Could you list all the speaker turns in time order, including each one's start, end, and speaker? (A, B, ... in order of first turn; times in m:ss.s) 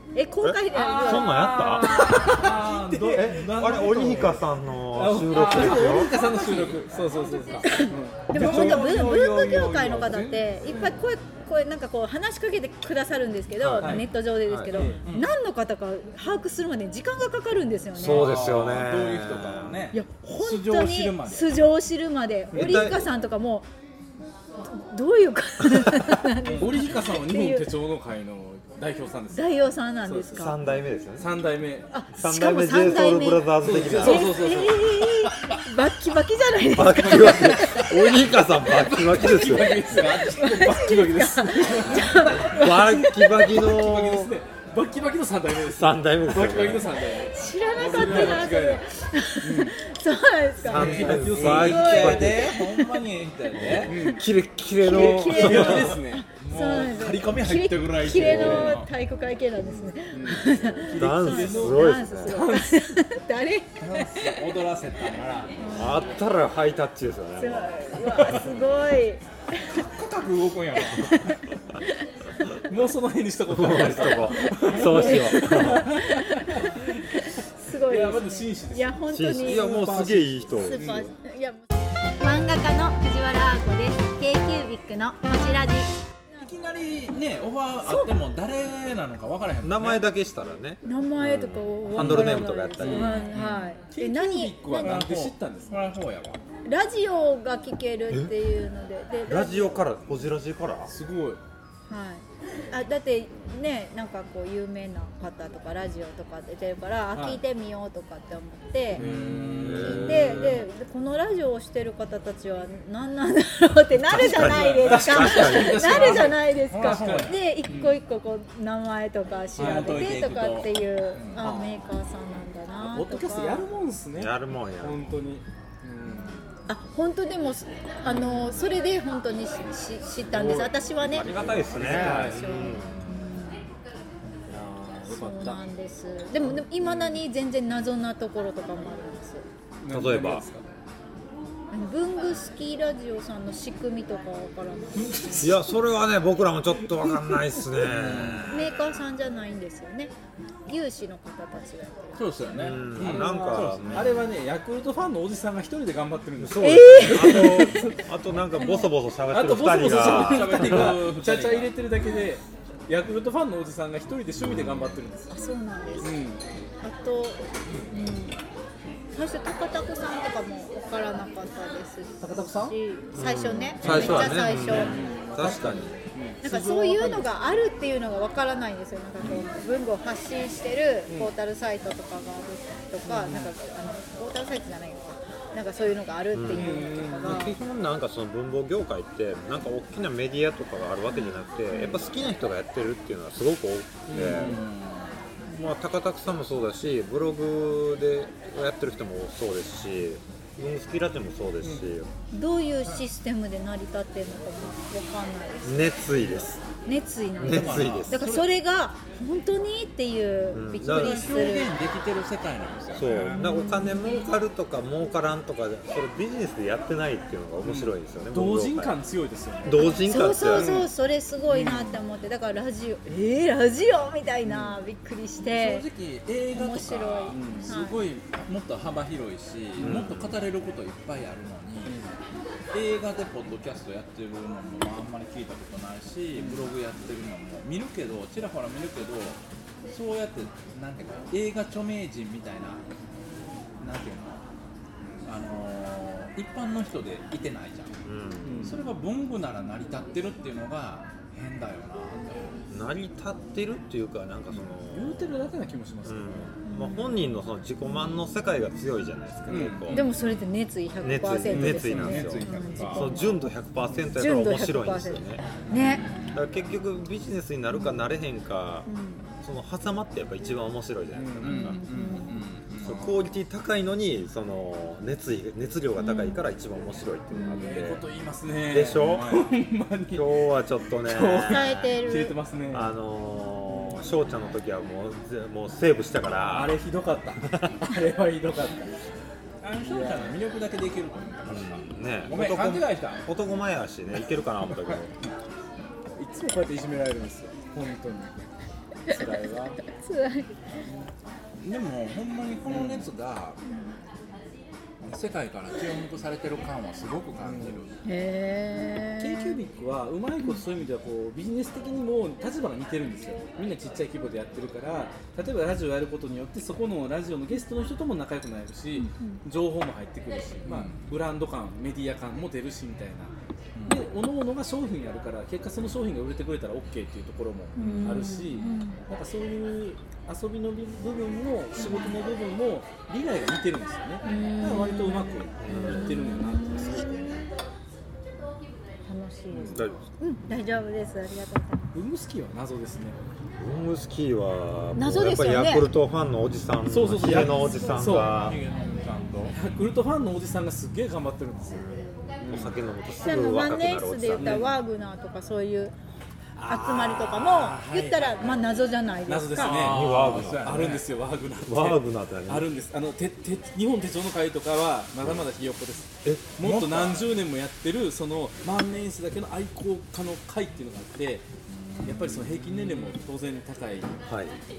0:00.2-0:02.1 A
0:00.4-0:06.1 B
0:00.7-0:11.0 C
0:01.7-0:03.4 D
0:05.4-0:07.0 D
0:07.5-0:18.3 A
0:08.4-0:08.8 D
0:13.6-0:14.8 B
0:13.8-0:14.1 C
0:14.7-0:15.0 C
0:15.0-0:15.3 D
0:17.9-0:19.8 B
0:18.0-0:21.5 D
0:19.9-0:23.7 A
0:22.5-0:22.9 C
0:22.5-0:23.1 B
0:24.6-0:27.7 A
0:26.4-0:27.0 D
0:26.6-0:31.9 C
0:29.3-0:30.6 A
0:30.3-0:31.4 B
0:31.9-0:38.0 A
0:32.1-0:34.4 B
0:33.6-0:35.0 C
0:36.7-0:39.8 B
0:37.0-0:37.6 C
0:38.7-0:48.8 C
0:39.6-0:40.7 D
0:40.4-0:43.5 A
0:42.3-0:44.4 B
0:45.7-0:46.9 B
0:47.3-0:53.0 A
0:48.0-0:48.4 D
0:49.4-0:49.8 C
0:50.6-0:52.5 B
0:50.7-0:52.5 C
0:50.7-0:54.0 D
0:53.6-0:56.0 B
0:53.9-0:54.3 C
0:54.8-1:04.4 A
0:54.9-0:56.2 C
0:56.4-0:58.9 D
0:58.1-0:58.8 C
0:58.2-0:58.7 B
0:59.7-1:02.8 C
1:00.4-1:02.4 B
1:03.8-1:05.6 D
1:05.6-1:06.1 A
1:05.7-1:07.7 B
1:07.4-1:09.6 A
1:08.2-1:08.5 D
1:09.7-1:11.4 D
1:10.9-1:11.4 A
1:12.7-1:16.8 C
1:13.5-1:15.9 B
1:14.0-1:20.0 A
1:17.7-1:21.1 C
1:19.1-1:21.1 B
1:20.6-1:21.6 A
1:22.2-1:26.5 A
1:26.4-1:30.0 D
1:27.8-1:28.1 A
1:29.6-1:33.2 B
1:30.8-1:35.0 A
1:32.0-1:33.3 C
1:32.9-1:33.8 D
1:33.9-1:35.8 C
1:34.8-1:36.4 D
1:36.7-1:39.8 A
1:39.3-1:40.9 B
1:40.9-1:41.4 C
1:41.9-1:49.0 A
1:47.1-1:47.4 C
1:48.9-1:50.6 C
1:48.9-1:50.5 D
1:49.6-1:50.5 B
1:49.8-2:03.7 A
1:54.1-1:56.3 B
1:54.5-1:57.4 D
1:54.9-1:58.0 C
1:59.6-2:00.1 C
1:59.6-2:01.4 D
2:01.4-2:01.9 C
2:02.8-2:06.5 C
2:04.1-2:05.2 B
2:06.7-2:13.7 A
2:08.0-2:08.6 C
2:10.2-2:12.7 C
2:11.2-2:13.0 B
2:14.5-2:15.6 C
2:15.1-2:19.4 A
2:16.4-2:17.2 C
2:19.8-2:20.6 C
2:19.9-2:20.4 B
2:21.7-2:25.4 A
2:25.0-2:25.5 C
2:25.4-2:28.7 B
2:27.8-2:28.7 D
2:28.5-2:30.1 A
2:30.7-2:32.2 A
2:32.2-2:34.3 D
2:32.5-2:34.3 B
2:33.0-2:38.0 C
2:36.4-2:41.0 B
2:36.6-2:37.8 A
2:38.6-2:38.9 A
2:39.3-2:45.4 C
2:39.8-2:41.8 D
2:44.4-2:45.0 B
2:45.3-2:46.2 A
2:46.0-2:46.4 C
2:46.8-2:48.4 A
2:49.1-2:54.9 A
2:52.2-2:52.8 C
2:53.1-2:55.9 B
2:53.8-2:55.0 D
2:53.8-2:57.6 C
2:56.4-3:07.6 A
3:01.1-3:01.3 C
3:03.0-3:03.5 C
3:06.3-3:14.6 B
3:06.5-3:07.5 C
3:11.1-3:12.0 A
3:14.1-3:14.6 C
3:14.1-3:15.1 D
3:15.5-3:22.1 B
3:21.6-3:21.9 C
3:22.3-3:26.1 A
3:25.6-3:26.6 B
3:26.8-3:31.7 A
3:27.4-3:28.3 B
3:27.4-3:28.4 D
3:30.5-3:31.4 B
3:30.8-3:33.5 D
3:32.9-3:39.0 B
3:33.3-3:34.3 A
3:37.6-3:40.9 C
3:39.6-3:40.7 B
3:40.0-3:45.9 A
3:41.5-3:42.0 C
3:44.5-3:44.8 C
3:45.5-3:52.0 D
3:46.5-3:48.0 A
3:47.3-3:47.7 C
3:49.8-3:50.4 B
3:51.9-3:52.2 C
3:52.7-4:02.8 D
3:56.4-3:56.7 C
4:03.8-4:04.4 D
4:05.2-4:08.0 D
4:08.0-4:08.8 B
4:08.4-4:08.8 C
4:08.6-4:12.6 D
4:12.7-4:15.3 B
4:14.5-4:16.5 C
4:16.0-4:20.0 B
4:16.7-4:17.2 A
4:19.5-4:20.0 C
4:19.9-4:20.3 D
4:19.9-4:23.4 A
4:21.0-4:25.5 B
4:21.5-4:22.3 C
4:21.6-4:23.1 D
4:24.2-4:26.0 A
4:25.7-4:26.3 D
4:26.3-4:28.9 B
4:28.9-4:29.3 A
4:29.4-4:31.8 B
4:31.1-4:31.7 C
4:31.4-4:33.2 D
4:31.5-4:32.4 A
4:32.8-4:38.0 B
4:36.0-4:36.4 A
4:37.3-4:37.8 A
4:37.5-4:40.3 C
4:38.7-4:39.4 B
4:39.0-4:39.5 D
4:40.1-4:41.7 B
4:41.0-4:42.9 C
4:41.5-4:42.4 A
4:42.7-4:46.8 B
4:43.7-4:44.0 C
4:46.5-4:49.0 C
4:47.5-4:47.8 B
4:49.6-4:53.2 D
4:49.8-4:50.3 C
4:51.5-4:55.1 B
4:56.2-4:58.3 C
4:59.1-4:59.8 C
4:59.9-5:00.6 A
5:00.8-5:01.1 C
5:01.6-5:03.6 D
5:02.7-5:03.1 C
5:05.0-5:08.0 D
5:07.4-5:07.9 C
5:08.0-5:09.6 A
5:09.2-5:23.3 C
5:19.0-5:19.4 A
5:20.7-5:21.1 D
5:23.8-5:24.0 D
5:23.9-5:37.4 C
5:27.8-5:29.0 A
5:27.8-5:28.4 D
5:31.8-5:32.2 A
5:34.2-5:37.5 A
5:35.6-5:36.1 B
5:39.1-5:42.0 A
5:39.5-5:39.8 C
5:39.7-5:40.0 B
5:41.9-5:43.2 C
5:43.6-5:48.6 B
5:45.0-5:45.9 A
5:46.9-5:48.3 C
5:48.2-5:49.6 D
5:49.5-5:51.9 C
5:51.7-5:54.6 B
5:52.4-5:52.8 C
5:53.2-5:55.9 A
5:54.4-5:54.7 C
5:56.6-5:58.5 C
5:56.7-5:59.8 A
5:57.4-5:58.4 D
5:59.3-6:11.5 C
5:59.6-6:01.0 D
5:59.7-6:00.9 B
6:01.6-6:02.7 B
6:05.2-6:05.5 B
6:06.2-6:06.6 B
6:06.6-6:07.4 D
6:11.7-6:13.2 D
6:12.0-6:14.2 C
6:14.3-6:14.6 B